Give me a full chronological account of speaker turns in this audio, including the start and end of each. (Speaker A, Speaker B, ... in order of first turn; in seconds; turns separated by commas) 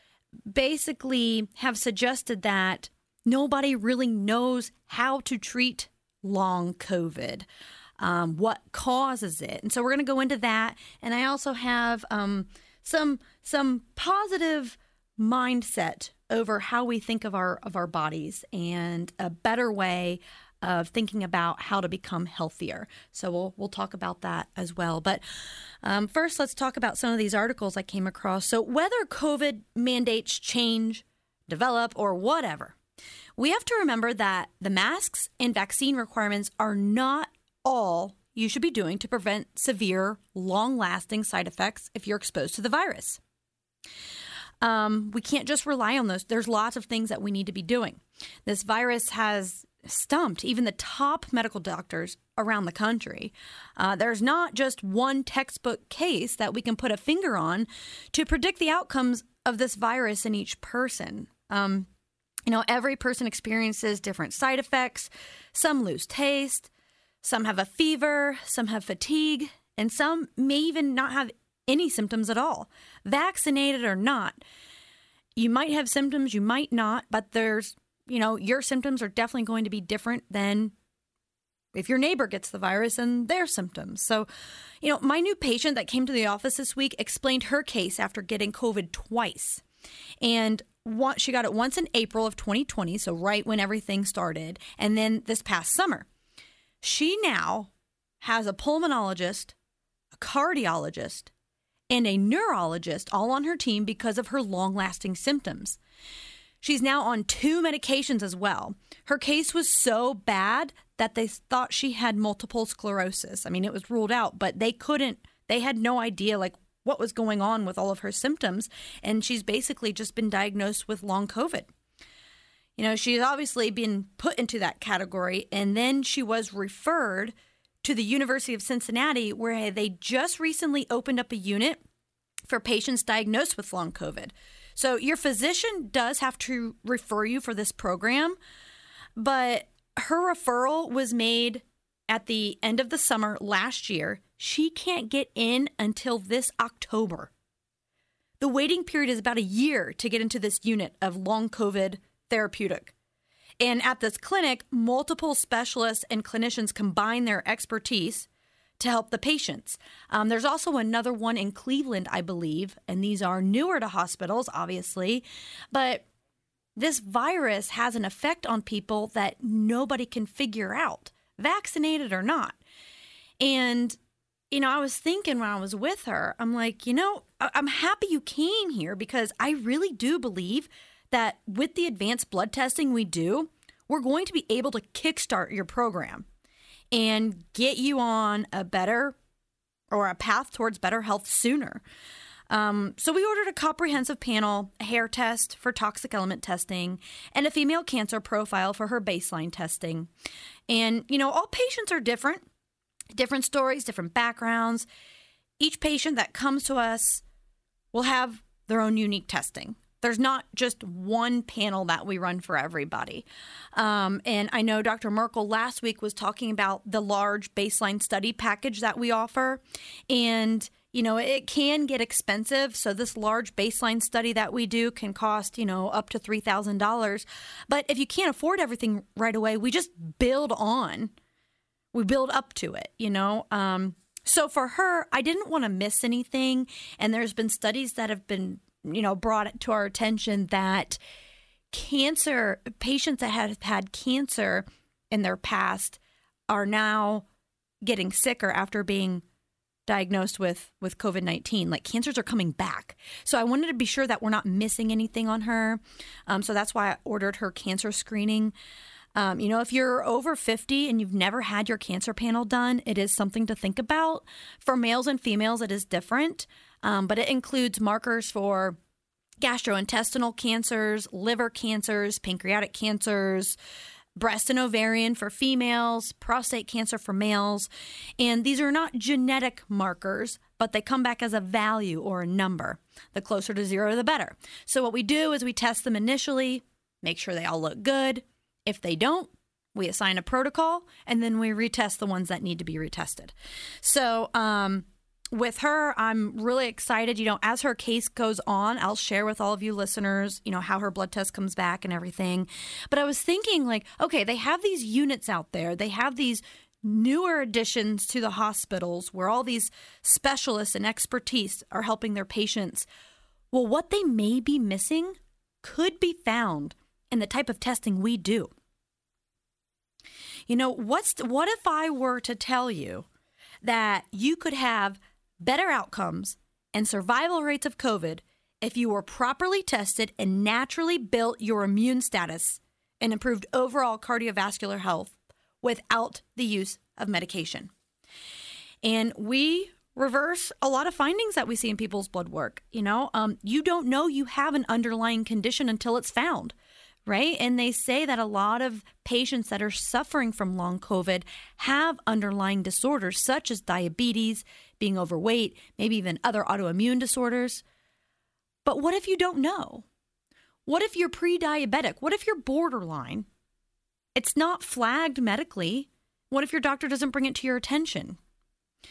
Speaker A: 0.5-7.5, Speaker A: 8.0-25.2, Speaker A: 25.8-32.8, Speaker A: 33.4-43.2, Speaker A: 44.6-61.9, Speaker A: 62.5-66.7, Speaker A: 67.2-74.4, Speaker A: 75.3-80.7, Speaker A: 81.7-84.3, Speaker A: 84.8-89.6, Speaker A: 90.2-96.0, Speaker A: 96.8-97.7, Speaker A: 98.2-99.5, Speaker A: 100.1-101.3, Speaker A: 101.9-105.8, Speaker A: 106.6-121.7, Speaker A: 122.8-131.8, Speaker A: 132.4-138.4, Speaker A: 139.2-147.3, Speaker A: 148.4-152.9, Speaker A: 153.6-158.3, Speaker A: 158.8-166.0, Speaker A: 166.8-172.6, Speaker A: 173.4-174.0, Speaker A: 174.5-186.2, Speaker A: 186.9-189.2, Speaker A: 189.9-191.8, Speaker A: 192.5-200.1, Speaker A: 200.7-202.4, Speaker A: 203.1-204.8, Speaker A: 205.6-207.2, Speaker A: 207.9-231.1, Speaker A: 231.9-241.0, Speaker A: 241.7-247.2, Speaker A: 247.8-249.2, Speaker A: 249.9-258.5, Speaker A: 259.1-268.8, Speaker A: 269.4-273.6, Speaker A: 274.1-312.9, Speaker A: 313.5-318.5, Speaker A: 320.5-323.1, Speaker A: 323.6-337.7, Speaker A: 338.8-346.5, Speaker A: 347.1-357.6, Speaker A: 358.6-359.8, Speaker A: 360.6-363.2, Speaker A: 364.1-368.2